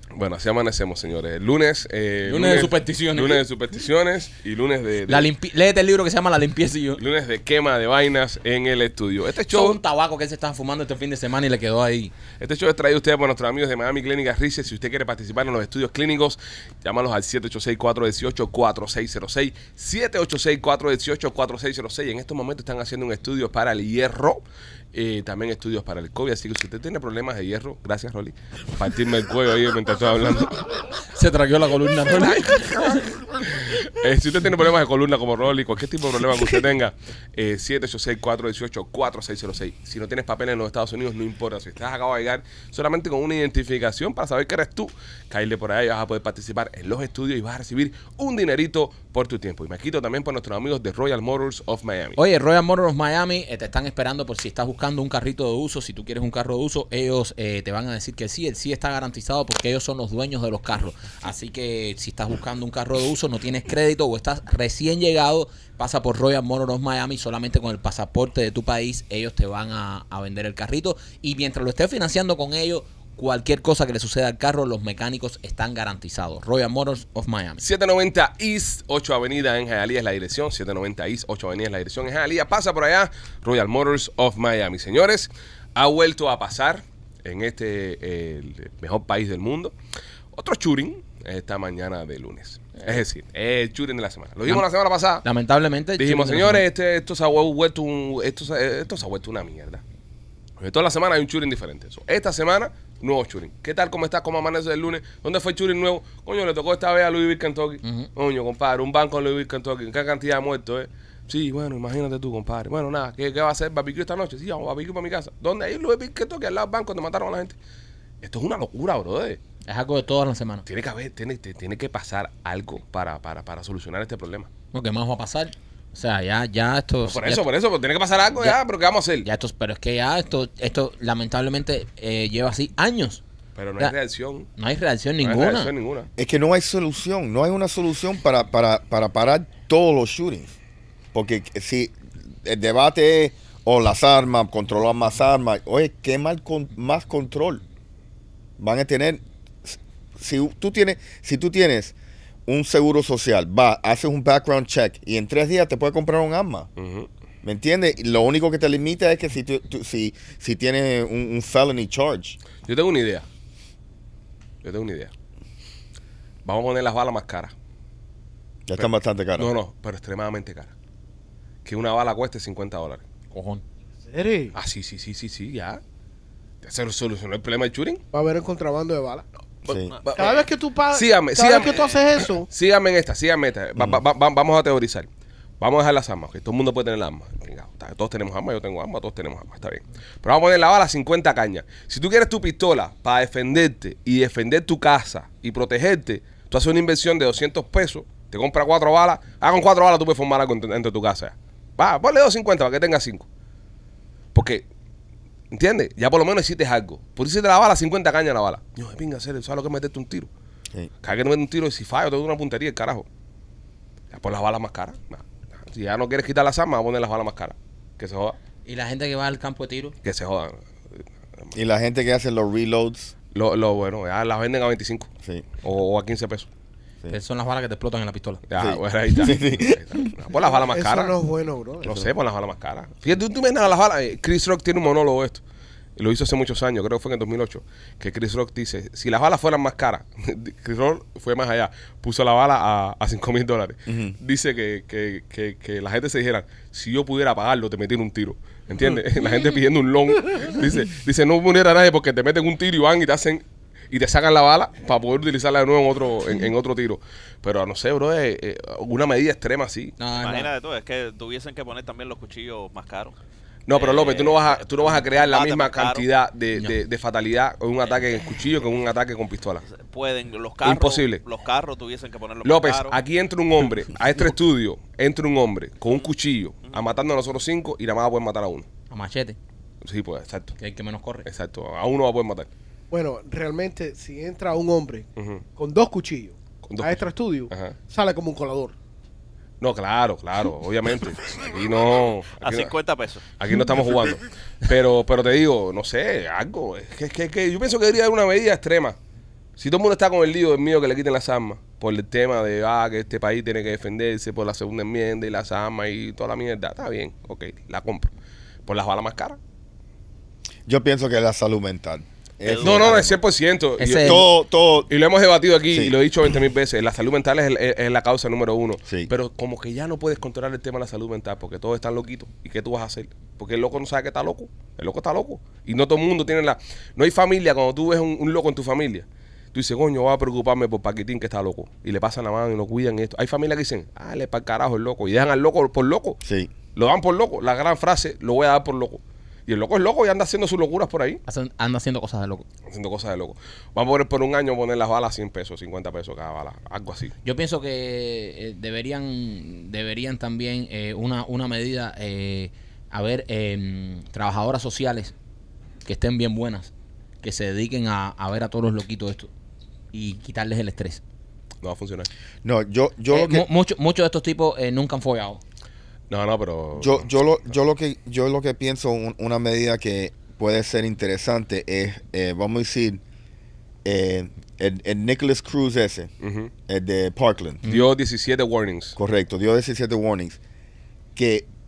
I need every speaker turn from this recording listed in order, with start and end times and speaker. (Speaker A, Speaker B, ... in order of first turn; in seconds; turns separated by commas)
Speaker A: 0.1-5.3, Speaker B: 2.2-3.4, Speaker B: 5.1-7.0, Speaker A: 7.0-9.8, Speaker B: 9.5-12.1, Speaker A: 12.4-30.6, Speaker B: 31.1-33.1, Speaker A: 32.1-32.5, Speaker A: 33.4-52.2, Speaker B: 52.2-77.6, Speaker A: 77.6-89.7, Speaker A: 90.3-95.2, Speaker B: 95.2-96.6, Speaker A: 96.0-99.8, Speaker A: 100.6-117.5, Speaker B: 107.8-108.1, Speaker A: 118.2-119.4, Speaker B: 119.7-120.6, Speaker A: 120.7-124.5, Speaker B: 124.7-127.4, Speaker A: 127.0-129.3, Speaker B: 129.2-133.2, Speaker A: 133.6-134.5, Speaker B: 134.6-135.7, Speaker A: 135.2-136.1, Speaker C: 136.2-140.5, Speaker C: 141.1-147.6, Speaker C: 148.6-151.9, Speaker C: 152.5-156.7, Speaker A: 156.8-157.1, Speaker C: 157.4-162.4, Speaker A: 162.6-163.2, Speaker A: 164.6-165.1, Speaker A: 166.4-167.5, Speaker C: 168.7-169.5, Speaker A: 168.7-170.7, Speaker A: 171.6-173.0, Speaker B: 173.3-173.6, Speaker D: 174.1-174.5, Speaker A: 174.5-175.8, Speaker A: 176.6-178.0, Speaker D: 178.1-179.2, Speaker C: 179.7-179.9, Speaker A: 179.7-185.1, Speaker D: 180.1-182.4, Speaker A: 185.6-203.2, Speaker A: 204.3-204.6, Speaker A: 205.5-210.3, Speaker A: 211.0-213.1, Speaker A: 214.1-218.4, Speaker B: 218.7-219.9, Speaker A: 220.0-221.5, Speaker C: 221.5-223.1, Speaker A: 223.3-225.1, Speaker A: 225.6-226.5, Speaker B: 227.1-228.4, Speaker A: 228.5-231.1, Speaker C: 228.6-229.8, Speaker D: 230.3-232.0, Speaker A: 231.8-235.4, Speaker A: 236.0-260.0, Speaker C: 243.9-244.2, Speaker B: 260.0-260.5, Speaker E: 260.2-263.1, Speaker A: 263.7-269.6, Speaker E: 263.7-266.1, Speaker E: 269.7-273.0, Speaker A: 270.6-271.2, Speaker A: 272.4-278.6, Speaker B: 278.9-279.4, Speaker A: 279.8-280.5, Speaker B: 280.6-281.2, Speaker A: 281.2-282.5, Speaker D: 282.9-285.1, Speaker A: 285.2-285.4, Speaker D: 285.6-288.7, Speaker A: 286.6-287.8, Speaker A: 289.6-292.7, Speaker E: 292.4-293.2, Speaker A: 293.4-298.9, Speaker A: 299.6-308.1, Speaker A: 308.6-309.4, Speaker C: 310.7-313.2, Speaker E: 312.4-312.9, Speaker A: 312.6-314.3, Speaker B: 313.8-314.2, Speaker C: 314.0-314.9, Speaker A: 314.9-336.2, Speaker C: 336.2-336.5, Speaker A: 336.8-341.2, Speaker B: 341.3-342.4, Speaker A: 342.7-347.1, Speaker B: 347.2-355.1, Speaker B: 355.8-356.7, Speaker B: 357.2-359.3, Speaker B: 359.9-361.0, Speaker A: 361.6-362.1, Speaker C: 362.4-363.4, Speaker B: 363.1-365.4, Speaker A: 366.1-367.1, Speaker C: 366.8-373.0, Speaker C: 373.8-376.1, Speaker A: 376.2-376.5, Speaker C: 376.7-377.6, Speaker A: 377.6-378.9, Speaker C: 378.9-380.4, Speaker C: 381.1-381.5